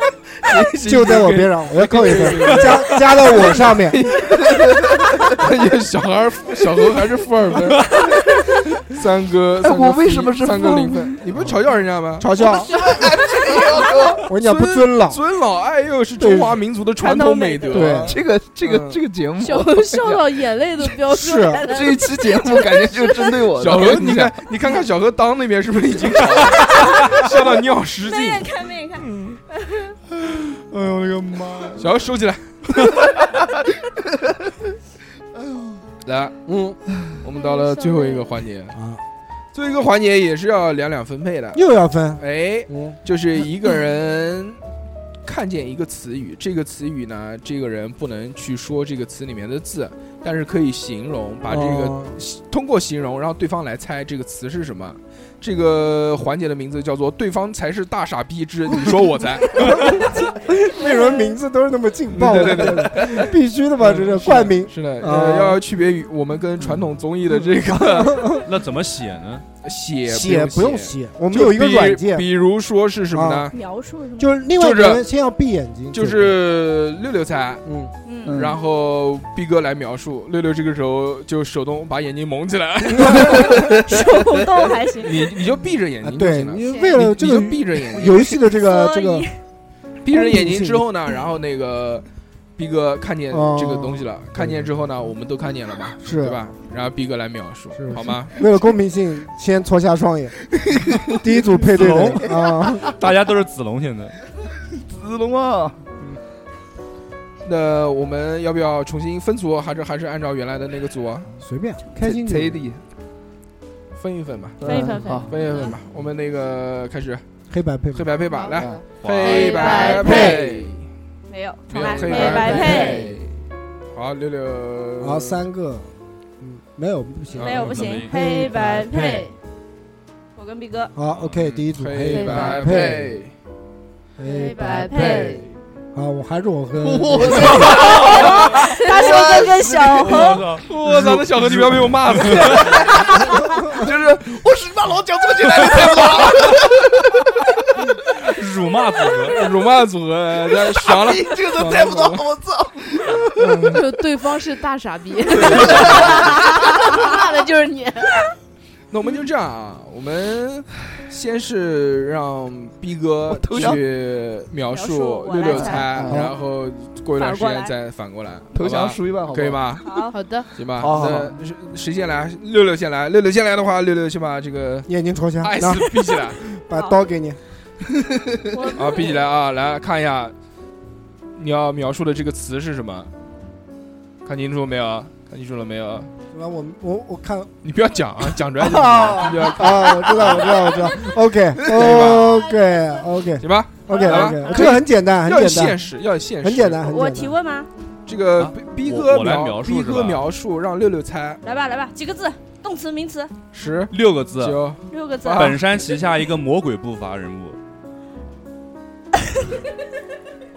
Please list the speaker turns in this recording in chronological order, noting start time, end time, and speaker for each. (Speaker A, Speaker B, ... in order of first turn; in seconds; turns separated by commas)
Speaker A: 0.4-2.9, Speaker B: 0.8-4.0, Speaker C: 3.9-5.5, Speaker A: 5.3-7.9, Speaker A: 8.9-12.3, Speaker C: 9.6-11.2, Speaker B: 12.2-12.7, Speaker C: 12.5-14.3, Speaker B: 14.2-15.2, Speaker A: 14.3-19.0, Speaker B: 16.2-16.6, Speaker D: 17.0-17.9, Speaker B: 17.7-18.2, Speaker C: 18.1-20.2, Speaker E: 19.4-22.0, Speaker B: 21.1-21.7, Speaker C: 21.7-24.3, Speaker D: 21.9-23.3, Speaker A: 23.6-28.5, Speaker D: 26.7-27.0, Speaker D: 28.0-30.0, Speaker F: 30.2-31.9, Speaker A: 31.8-32.6, Speaker F: 32.8-33.0, Speaker A: 36.0-36.3, Speaker B: 36.5-36.8, Speaker A: 37.2-38.8, Speaker D: 37.3-38.3, Speaker B: 38.7-39.0, Speaker A: 39.5-41.6, Speaker B: 41.5-43.0, Speaker A: 42.2-44.6, Speaker A: 45.2-60.0, Speaker B: 51.5-52.2, Speaker B: 59.6-65.6, Speaker A: 62.1-68.4, Speaker B: 67.8-68.4, Speaker F: 68.4-69.4, Speaker A: 69.6-73.5, Speaker B: 70.1-72.2, Speaker B: 73.1-73.5, Speaker D: 73.5-74.3, Speaker B: 74.2-76.4, Speaker A: 74.5-75.0, Speaker A: 75.9-77.6, Speaker B: 77.6-77.9, Speaker D: 78.0-78.4, Speaker C: 78.2-78.6, Speaker A: 78.3-83.6, Speaker B: 82.9-83.5, Speaker D: 83.8-85.3, Speaker A: 85.0-88.3, Speaker B: 86.0-89.3, Speaker D: 88.1-89.3, Speaker A: 90.0-92.0, Speaker B: 90.1-90.8, Speaker A: 92.6-98.3, Speaker B: 93.3-94.7, Speaker B: 96.0-96.4, Speaker B: 97.8-102.9, Speaker F: 101.7-104.1, Speaker C: 102.6-102.9, Speaker C: 104.8-105.8, Speaker A: 107.4-111.3, Speaker B: 111.4-112.6, Speaker C: 112.0-112.8, Speaker A: 114.0-114.6, Speaker C: 114.6-115.3, Speaker D: 114.6-115.7, Speaker E: 114.7-115.7, Speaker A: 115.3-117.2, Speaker B: 117.5-118.1, Speaker A: 117.9-120.8, Speaker E: 118.3-120.4, Speaker C: 118.5-118.8, Speaker F: 119.0-119.6, Speaker D: 119.2-120.3, Speaker C: 119.8-120.7, Speaker B: 120.0-120.4, Speaker D: 121.3-123.1, Speaker A: 121.7-122.9, Speaker C: 121.9-123.3, Speaker E: 122.1-123.1, Speaker B: 122.5-122.8, Speaker A: 123.9-125.4, Speaker B: 125.0-129.3, Speaker A: 127.3-127.7, Speaker D: 127.3-129.3, Speaker F: 127.6-128.1, Speaker E: 128.6-129.3, Speaker D: 130.3-130.9, Speaker B: 130.9-133.1, Speaker A: 131.4-133.3, Speaker E: 132.1-132.7, Speaker C: 132.4-133.2, Speaker B: 134.2-135.4, Speaker E: 134.2-135.4, Speaker C: 135.0-135.2, Speaker A: 135.1-135.4, Speaker B: 135.9-137.9, Speaker C: 136.8-140.4, Speaker D: 137.6-140.4, Speaker F: 140.0-142.7, Speaker A: 140.6-143.0, Speaker C: 142.4-146.9, Speaker B: 143.3-143.8, Speaker F: 145.6-146.3, Speaker F: 148.2-149.4, Speaker A: 149.3-152.2, Speaker C: 150.7-153.7, Speaker A: 153.4-153.8, Speaker E: 153.7-158.3, Speaker C: 155.3-156.4, Speaker A: 158.9-170.0, Speaker C: 163.3-163.8, Speaker D: 164.7-165.9, Speaker C: 165.5-166.3, Speaker E: 165.5-165.8, Speaker B: 166.1-166.3, Speaker D: 167.2-167.7, Speaker C: 168.5-169.6, Speaker D: 169.8-170.2, Speaker E: 170.1-170.5, Speaker A: 170.5-174.9, Speaker C: 170.8-171.4, Speaker B: 174.9-177.4, Speaker A: 175.4-176.4, Speaker D: 176.7-177.0, Speaker E: 178.5-179.2, Speaker A: 178.7-180.3, Speaker A: 181.3-183.1, Speaker A: 184.2-186.1, Speaker B: 186.3-187.5, Speaker A: 187.6-190.6, Speaker B: 188.6-195.8, Speaker A: 191.7-192.4, Speaker A: 193.4-196.8, Speaker E: 193.9-194.7, Speaker B: 196.4-197.3, Speaker D: 196.8-197.7, Speaker A: 198.1-201.4, Speaker F: 198.4-200.2, Speaker D: 201.4-203.3, Speaker A: 203.5-205.7, Speaker F: 203.9-204.7, Speaker D: 204.9-205.6, Speaker F: 205.3-207.6